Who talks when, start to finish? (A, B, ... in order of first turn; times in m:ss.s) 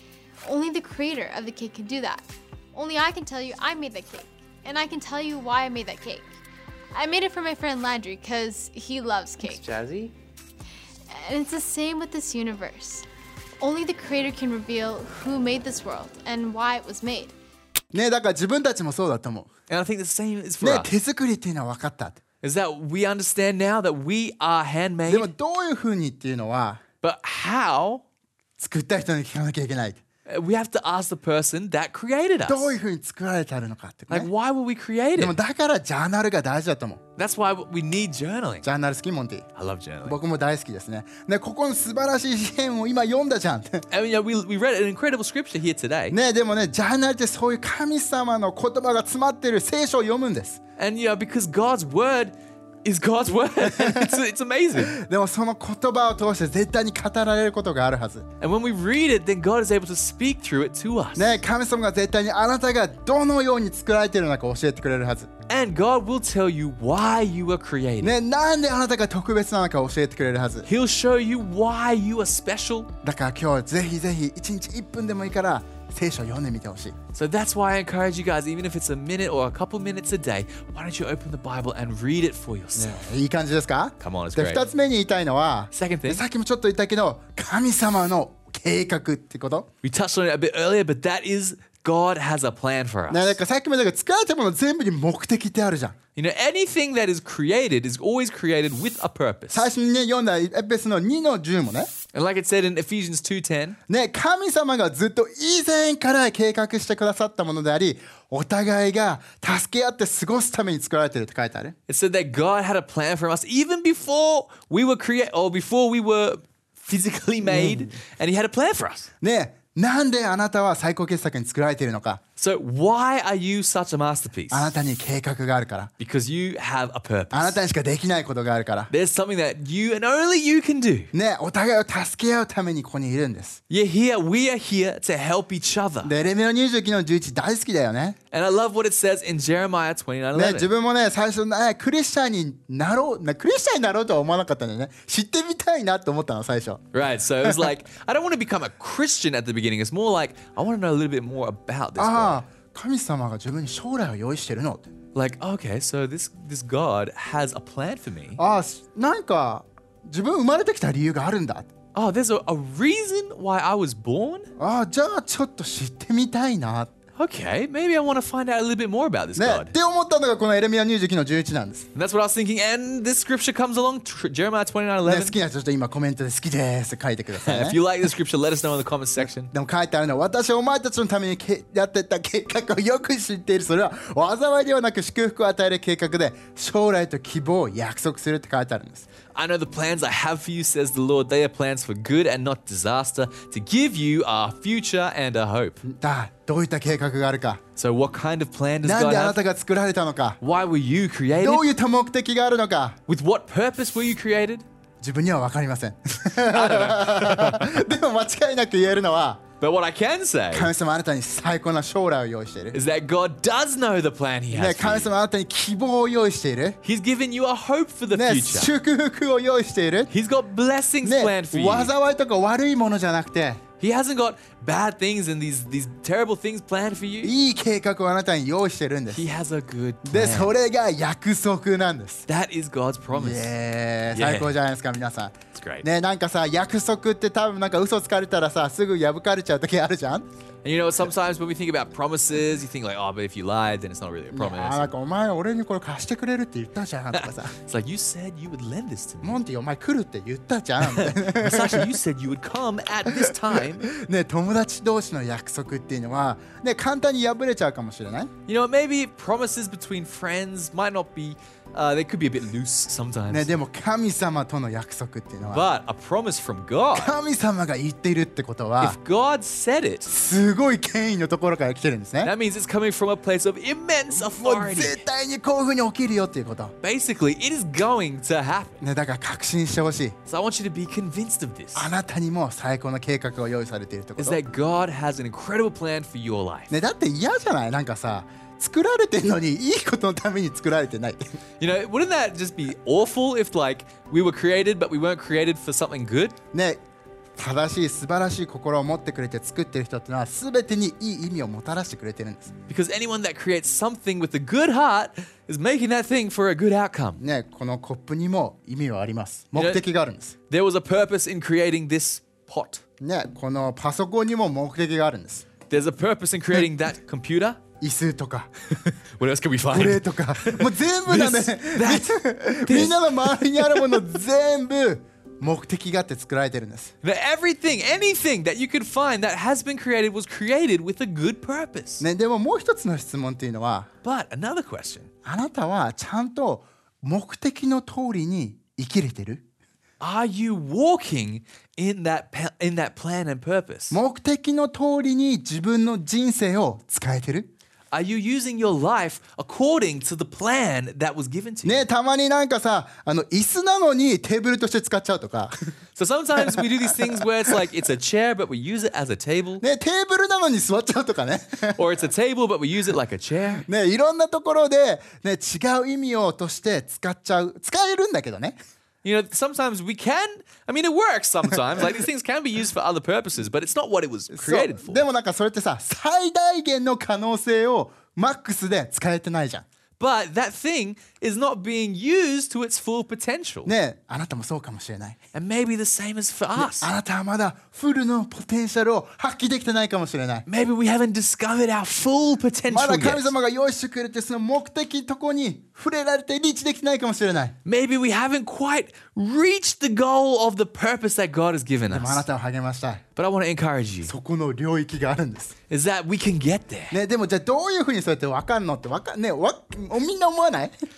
0:00.4-0:06.2 A
0:06.9-0:09.6 A
0:09.4-0:10.1 B
0:11.1-0:13.0 A
0:13.6-0:17.3 A
0:17.9-0:19.5 C
0:19.7-0:20.9 B
0:20.6-0:22.2 C
0:22.4-0:25.3 B
0:25.1-0:26.8 C
0:27.0-0:28.0 B
0:28.6-0:30.0 C
0:30.2-0:32.7 B
0:32.5-0:34.3 C
0:34.1-0:35.4 B
0:35.2-0:37.0 C
0:37.2-0:38.7 B
0:38.6-0:39.5 C
0:39.6-0:40.2 B
0:40.0-0:43.8 C
0:43.9-0:46.2 B
0:46.1-0:50.6 C
0:50.8-0:54.9 B
0:53.6-0:54.2 C
0:54.8-0:58.3 C
0:58.4-1:01.4 B
1:01.2-1:05.3 C
1:05.5-1:08.1 B
1:08.0-1:10.7 C
1:10.6-1:12.9 B
1:13.0-1:17.0 C
1:17.1-1:23.0 B
1:22.7-1:29.7 C
1:24.0-1:24.7 B
1:25.7-1:26.2 B
1:29.8-1:33.4 B
1:33.1-1:36.0 C
1:36.1-1:39.7 B
1:39.5-1:41.9 C
1:42.1-1:43.8 B
1:43.9-1:51.7 C
1:51.9-1:59.1 B
1:57.4-1:57.9 C
1:59.2-2:02.2 C
2:02.4-2:04.7 B
2:04.5-2:05.9 C
2:06.0-2:07.6 B
2:07.3-2:08.9 C
2:08.9-2:11.1 B
2:11.1-2:13.6 C
2:13.7-2:16.1 B
2:16.0-2:18.2 C
2:18.3-2:20.7 B
2:20.3-2:27.7 C
2:26.9-2:32.4 B
2:32.0-2:34.9 C
2:35.1-2:38.4 B
2:38.4-2:41.7 C
2:41.9-2:44.5 B
2:44.6-2:46.9 C
2:47.2-2:49.7 B
2:49.4-2:51.9 C
2:51.9-2:55.4 B
2:55.0-2:57.8 C
2:57.4-2:59.5 B
2:59.4-3:09.1 C
3:09.3-3:15.8 B
3:15.8-3:17.6 C
3:17.8-3:19.4 B
3:18.8-3:20.4 C
3:20.4-3:21.6 B
3:21.4-3:23.0 C
3:23.1-3:24.6 B
3:25.0-3:29.4 C
3:26.4-3:27.8 B
3:29.6-3:30.7 B
3:30.5-3:32.8 C
3:32.7-3:35.1 B
3:34.5-3:36.8 C
3:36.8-3:38.7 B
3:38.1-3:40.1 C
3:40.1-3:41.9 B
3:41.0-3:43.6 C
3:43.8-3:47.3 B
3:47.2-3:49.3 C
3:49.1-3:50.5 B
3:50.0-3:52.2 C
3:52.3-3:53.5 B
3:53.1-4:00.2 C
3:54.1-3:54.5 B
3:55.5-3:55.8 B
4:00.6-4:04.9 B
4:04.3-4:07.5 C
4:07.1-4:09.4 B
4:09.2-4:12.0 C
4:10.8-4:13.9 B
4:13.0-4:18.3 C
4:18.5-4:23.5 B
4:23.3-4:25.7 C
4:25.5-4:27.1 B
4:26.9-4:29.0 C
4:28.8-4:30.1 B
4:30.0-4:32.3 C
4:32.2-4:35.0 B
4:34.1-4:36.7 C
4:36.8-4:38.8 B
4:38.8-4:40.2 C
4:40.2-4:41.9 B
4:41.7-4:44.4 C
4:44.2-4:46.7 B
4:46.7-4:51.3 C
4:51.6-4:56.4 B
4:56.5-4:56.8 C
4:57.4-5:02.5 C
5:02.7-5:07.2 B
5:07.2-5:10.3 C
5:09.5-5:09.8 B
5:10.5-5:12.8 B
5:13.0-5:15.4 C
5:15.7-5:17.6 B
5:17.8-5:18.5 C
5:18.7-5:24.0 B
5:19.7-5:26.9 C
5:27.0-5:32.0 B
5:32.0-5:33.9 C
5:34.0-5:35.1 B
5:35.2-5:39.4 C
5:40.0-5:44.0 B
5:43.9-5:47.5 C
5:47.9-5:51.8 B
5:51.6-5:55.5 C
5:56.0-5:59.6 B
5:56.4-5:57.6 C
5:59.6-6:01.8 C
6:01.7-6:03.6 B
6:03.6-6:08.6 C
6:09.0-6:15.0 B
6:14.3-6:19.6 C
6:20.0-6:23.7 B
6:23.6-6:25.2 C
6:25.3-6:26.9 B
6:26.6-6:30.4 C
6:30.5-6:33.3 B
6:32.7-6:37.6 C
6:37.6-6:42.2 B
6:41.9-6:43.0 C
6:43.2-6:44.1 B
6:44.0-6:45.6 C
6:45.7-6:47.0 B
6:46.9-6:50.7 C